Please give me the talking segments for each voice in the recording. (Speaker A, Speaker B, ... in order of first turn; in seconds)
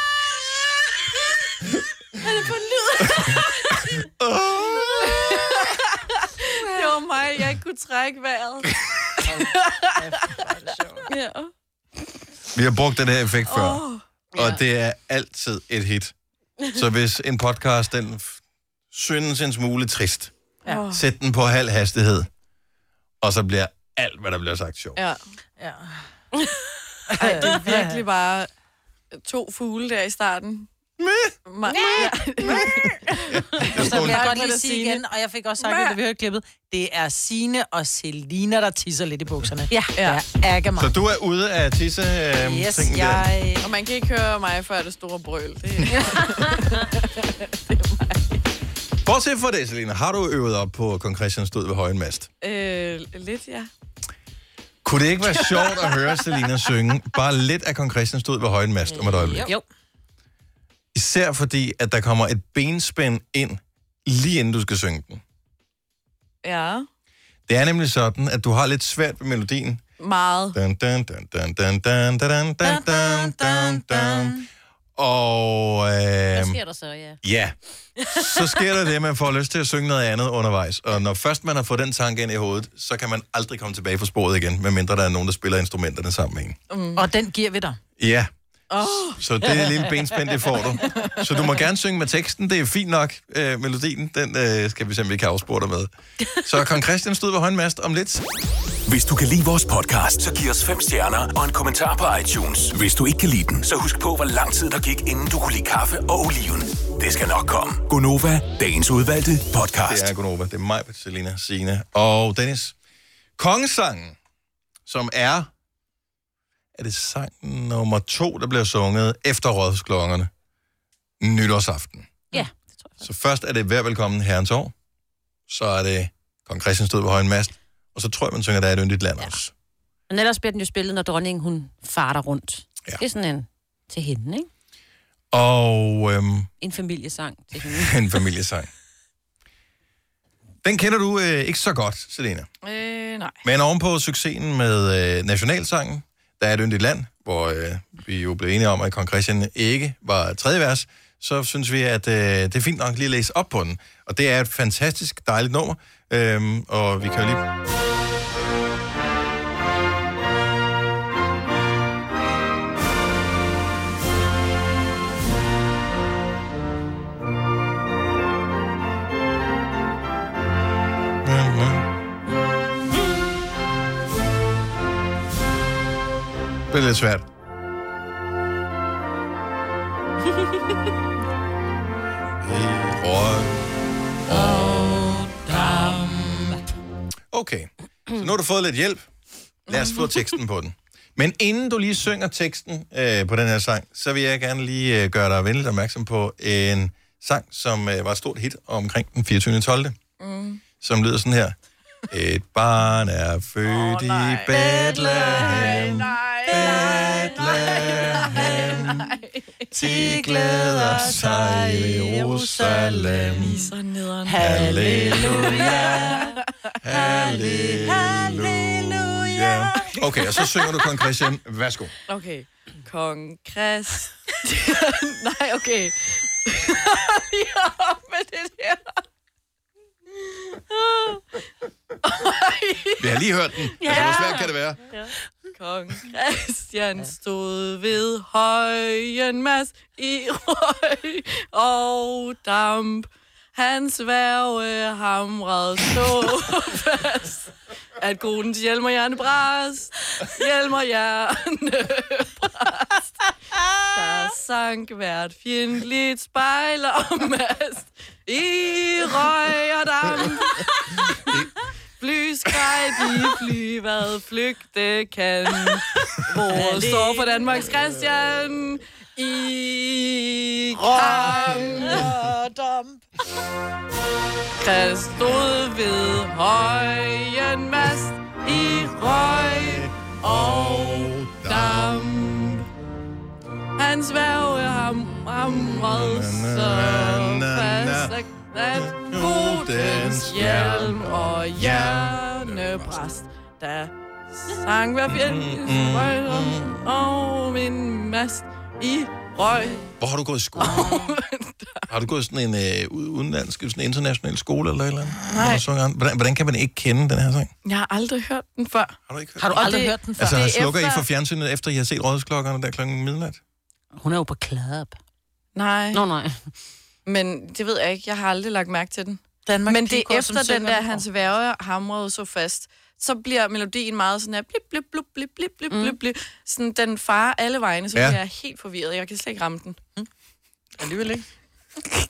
Speaker A: 2.4-3.4, 5.2-5.6, 6.5-8.7, 9.4-10.4, 11.1-11.5, 13.5-14.0, 20.6-21.0, 24.9-25.2, 27.2-28.5, 29.1-30.7, 31.5-35.0, 35.6-35.9, 40.0-40.2, 43.6-48.3, 52.4-53.7, 66.4-66.9, 70.0-70.6, 86.7-87.0, 88.7-89.2, 142.6-143.4, 189.7-190.1, 200.2-200.6, 203.7-209.2, 213.4-216.4, 222.1-229.0, 230.7-231.2, 232.0-233.1, 233.8-234.5, 235.5-247.5, 248.0-253.2, 253.9-261.1, 262.0-265.8, 266.4-272.1, 274.6-282.6, 283.8-299.9, 300.6-301.9, 305.3-305.6, 307.6-309.0, 309.5-311.0, 315.5-316.0, 317.1-329.8
Speaker B: 4.2-5.4, 12.5-16.1, 16.7-18.4, 18.9-20.3, 20.9-22.3, 23.2-25.0, 31.0-31.3, 32.5-34.3, 40.8-43.2, 49.0-52.3, 54.8-59.5, 60.9-65.2, 67.5-69.8, 70.5-74.3, 75.0-76.6, 77.2-77.5, 78.1-86.6, 88.0-95.9, 96.4-98.2, 109.8-112.8, 113.4-114.2, 114.9-115.5, 116.7-120.3, 121.2-122.1, 123.0-124.7, 125.5-129.5, 135.3-136.5, 137.6-138.7, 140.6-142.5, 143.4-157.4, 171.2-171.9, 176.7-177.2, 182.4-183.6, 184.2-186.0, 187.3-189.0, 189.7-199.9, 200.8-201.6, 202.1-209.1, 209.7-213.6, 214.3-216.2, 216.8-221.9, 233.0-234.8, 271.9-272.1, 278.5-282.6, 285.4-288.2, 288.7-293.1, 295.1-296.7, 300.0-301.0, 301.9-307.5, 309.1-313.4, 327.9-328.2
Speaker C: 9.2-11.1, 25.6-26.0, 27.1-28.0, 33.6-40.9, 42.4-43.6, 58.9-59.6, 72.6-74.5, 87.0-87.8, 184.3-186.6, 204.9-208.9, 209.7-213.7, 214.2-216.3, 216.9-219.9, 233.9-234.3, 266.4-267.1, 270.8-273.0, 305.3-305.6, 309.4-310.6, 319.4-321.1, 330.8-331.2
Speaker D: 76.3-77.2, 122.3-123.0, 130.1-134.5, 136.6-138.0, 266.7-267.0, 314.0-315.0, 315.9-316.5, 325.7-326.0
Speaker E: 98.8-110.1